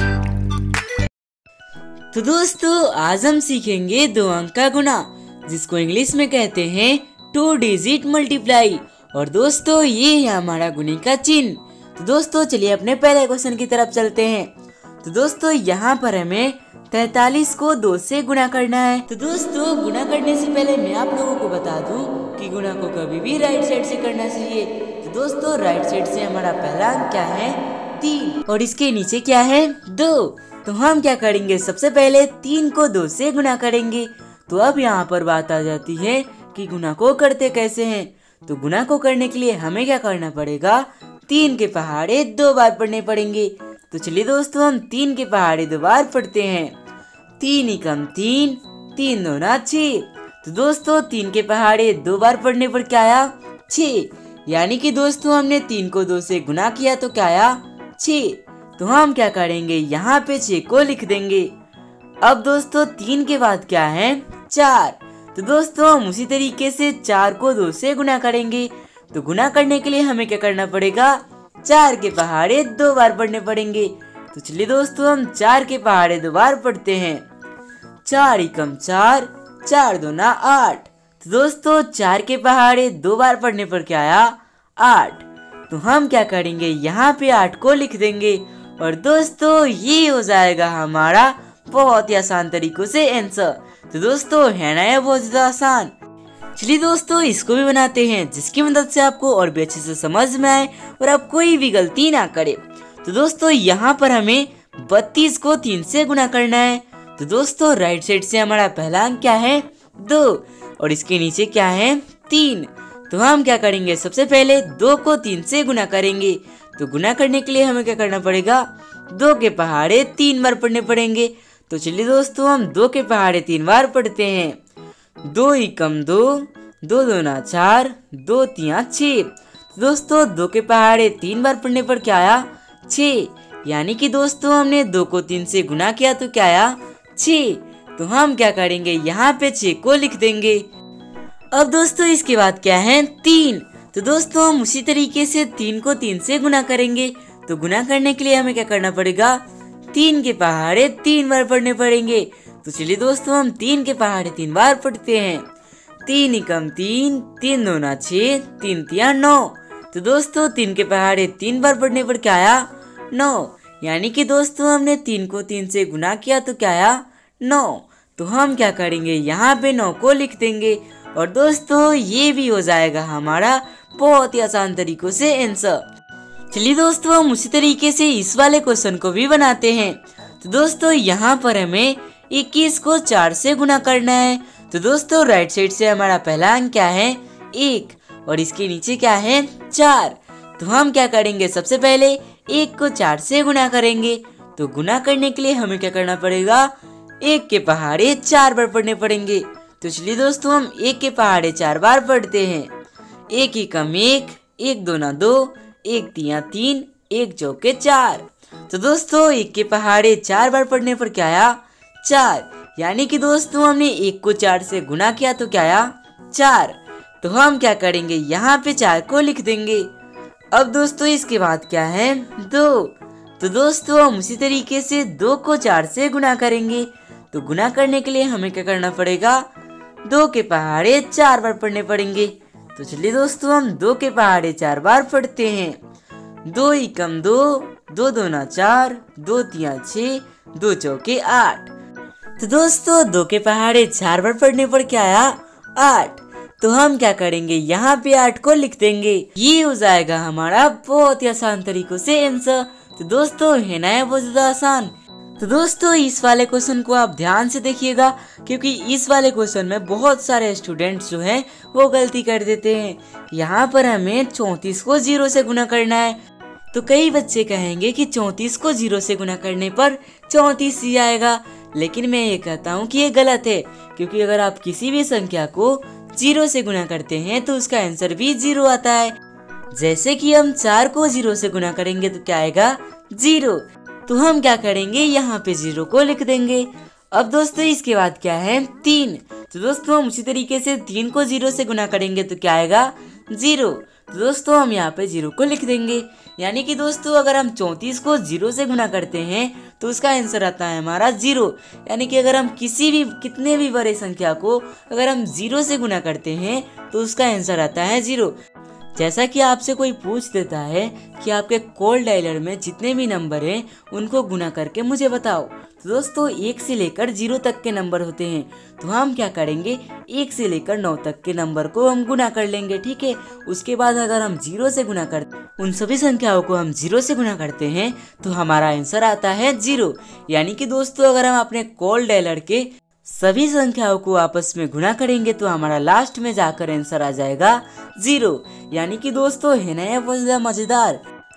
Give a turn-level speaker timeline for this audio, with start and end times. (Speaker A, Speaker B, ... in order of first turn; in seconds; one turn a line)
Speaker A: 2.1-14.5
Speaker A: 15.0-46.8
Speaker A: 47.4-61.5
Speaker A: 62.2-77.2
Speaker A: 78.0-95.9
Speaker A: 96.6-124.6
Speaker A: 125.3-140.7
Speaker A: 141.5-149.4
Speaker A: 149.9-155.5
Speaker A: 156.1-175.8
Speaker A: 176.5-202.7
Speaker A: 203.3-219.9
Speaker A: 220.5-229.4
Speaker A: 230.1-235.8
Speaker A: 236.5-241.7
Speaker A: 242.4-266.2
Speaker A: 266.7-279.1
Speaker A: 279.7-308.4
Speaker A: 308.9-341.0